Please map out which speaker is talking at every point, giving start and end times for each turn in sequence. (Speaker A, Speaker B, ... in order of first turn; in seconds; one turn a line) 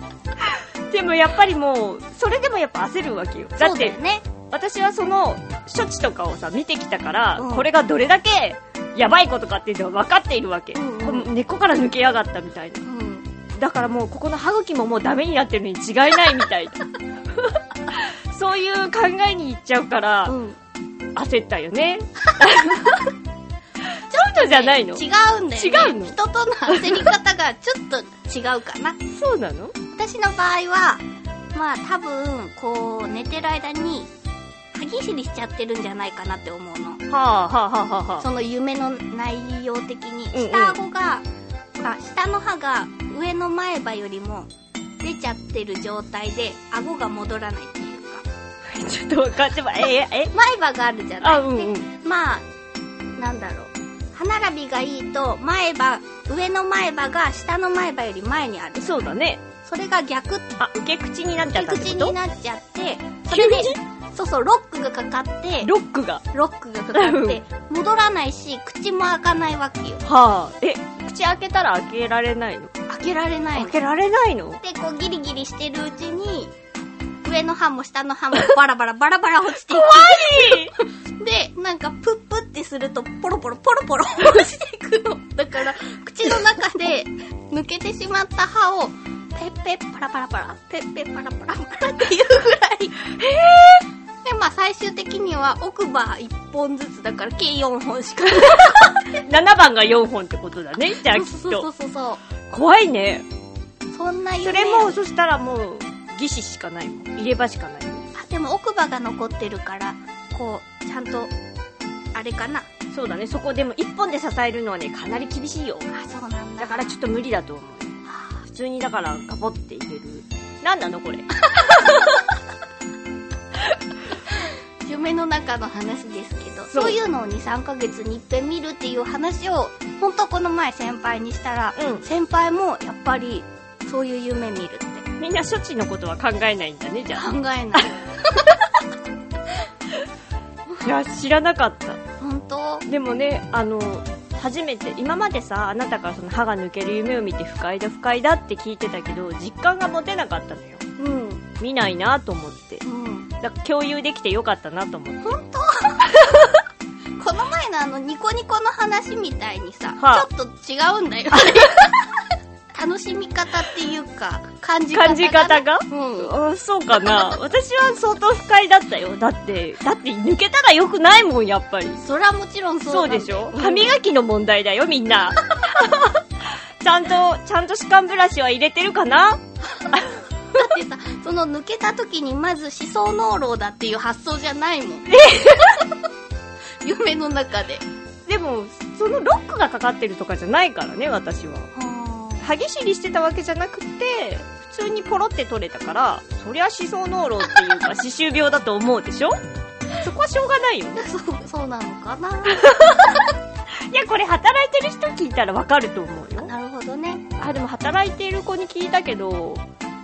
Speaker A: 0.4-4.0
Speaker B: 3.6-4.2
Speaker A: 4.5-12.8
Speaker B: 7.3-7.7
Speaker B: 10.7-11.3
Speaker B: 12.8-13.2
Speaker A: 13.5-16.8
Speaker A: 17.4-20.4
Speaker B: 20.2-20.6
Speaker A: 21.1-23.1
Speaker B: 24.1-29.0
Speaker A: 24.1-25.0
Speaker A: 25.5-27.1
Speaker A: 29.1-29.7
Speaker B: 29.9-31.0
Speaker B: 31.5-34.1
Speaker B: 34.7-37.0
Speaker A: 37.1-38.3
Speaker B: 38.2-41.2
Speaker A: 40.3-40.8
Speaker B: 41.8-44.5
Speaker B: 45.0-48.2
Speaker A: 48.6-50.3
Speaker B: 50.3-52.5
Speaker A: 51.2-51.9
Speaker B: 53.1-60.6
Speaker A: 58.8-59.4
Speaker A: 60.6-62.1
Speaker B: 61.5-65.7
Speaker A: 63.3-63.8
Speaker A: 65.6-66.2
Speaker B: 66.3-70.0
Speaker A: 66.9-67.4
Speaker A: 70.0-72.7
Speaker B: 72.9-73.8
Speaker A: 73.5-74.6
Speaker B: 74.6-76.5
Speaker B: 77.2-93.0
Speaker A: 79.6-80.7
Speaker A: 93.2-93.8
Speaker B: 94.2-99.1
Speaker A: 99.0-101.7
Speaker B: 101.1-102.2
Speaker A: 102.5-103.2
Speaker B: 103.9-105.0
Speaker A: 104.4-108.1
Speaker B: 108.1-111.3
Speaker B: 112.1-112.7
Speaker A: 112.9-115.9
Speaker B: 115.9-117.0
Speaker A: 116.6-122.1
Speaker B: 118.1-118.4
Speaker B: 121.5-122.1
Speaker B: 124.3-135.1
Speaker A: 126.7-127.0
Speaker A: 131.8-132.0
Speaker A: 135.2-137.3
Speaker B: 137.1-138.7
Speaker A: 140.8-142.0
Speaker B: 142.2-142.8
Speaker A: 142.8-150.8
Speaker B: 151.0-151.4
Speaker A: 151.6-152.8
Speaker B: 152.8-153.3
Speaker A: 153.4-155.4
Speaker B: 155.2-156.1
Speaker B: 157.2-166.3
Speaker A: 160.0-160.3
Speaker A: 164.9-172.0
Speaker B: 172.0-173.9
Speaker A: 172.9-176.1
Speaker A: 176.8-180.2
Speaker B: 180.5-185.1
Speaker A: 185.1-185.8
Speaker B: 186.8-187.8
Speaker A: 188.2-191.7
Speaker B: 191.7-192.5
Speaker A: 192.4-199.4
Speaker A: 200.0-201.1
Speaker B: 200.9-203.2
Speaker A: 202.5-203.1
Speaker A: 203.7-206.5
Speaker B: 206.4-207.3
Speaker A: 207.4-209.6